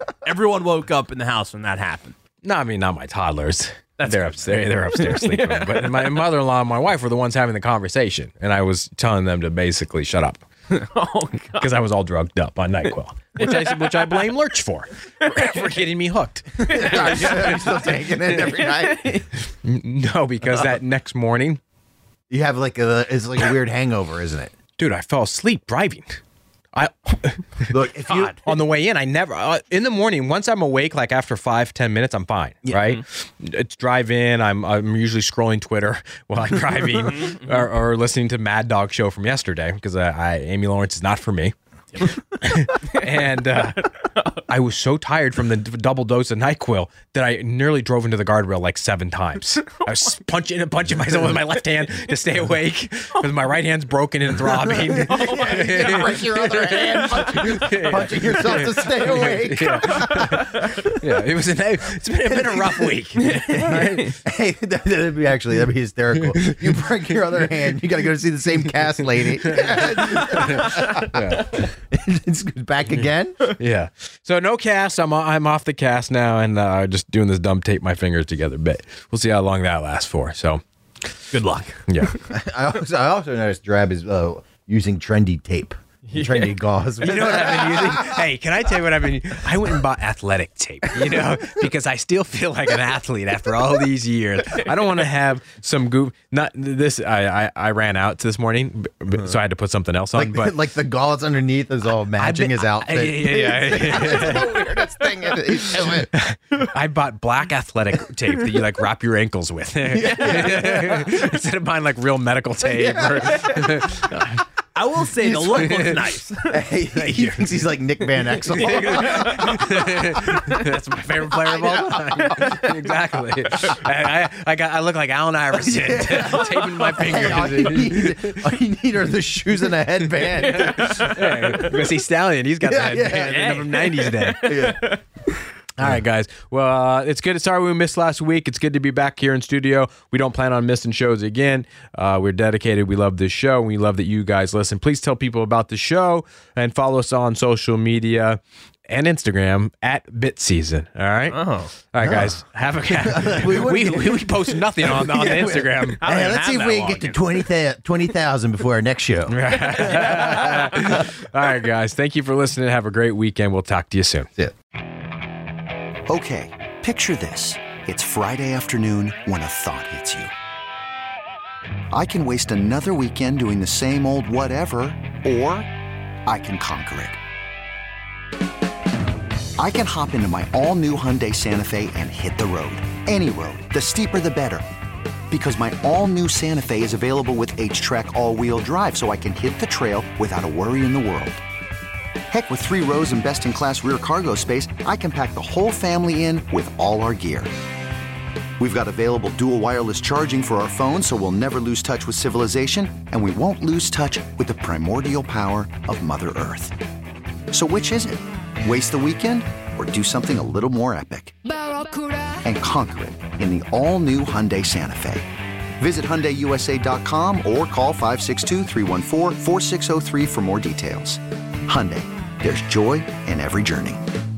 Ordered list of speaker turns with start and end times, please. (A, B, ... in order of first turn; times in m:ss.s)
0:00.2-0:02.1 A
0:02.4-0:10.4 B
0:04.0-0:06.2 A
0:10.7-0:11.7 A
0:11.5-0:17.9 B
0:13.4-0:14.3 A
0:15.2-0:15.8 A
0:16.6-0:19.2 C
0:16.7-0:19.3 A
0:19.4-0:21.6 B
0:22.3-0:24.5 C
0:24.8-0:26.2 B
0:26.7-0:27.7 B
0:27.7-0:28.4 C
0:28.4-1:04.2 B
0:32.6-0:33.0 C
0:54.7-1:00.8 C
0:55.1-0:56.0 A
0:59.9-1:00.7 A
1:02.3-1:13.4 C
1:09.4-1:11.6 B
1:13.4-1:20.6 B
1:21.3-1:22.2 A
1:21.9-1:22.1 B
1:22.2-1:28.2 C
1:26.2-1:26.4 A
1:27.0-1:40.5 B
1:40.1-1:46.1 C
1:42.2-1:44.5 B
1:46.0-1:54.4 B
1:49.9-1:51.1 C
1:50.0-1:50.8 A
1:52.6-1:54.0 C
1:54.7-1:56.6 A
1:55.2-2:03.2 C
1:55.6-1:56.0 B
1:56.9-1:57.6 B
1:58.5-2:08.5 B
1:58.9-1:59.5 A
2:05.6-2:11.7 C
2:10.2-2:14.7 B
2:10.6-2:11.2 A
2:12.6-2:14.9 C
2:14.4-2:14.7 A
2:15.8-2:36.0 B
2:31.3-2:31.7 A
2:32.0-2:41.0 C
2:36.0-2:37.4 A
2:39.3-2:44.3 B
2:46.1-2:50.3 D
2:51.9-2:55.7 D
2:56.2-2:57.2 D
2:59.6-3:04.6 D
3:05.3-3:11.4 D
3:12.3-3:17.5 D
3:18.6-3:26.7 D
3:27.5-3:31.4 D
3:32.4-3:44.1 D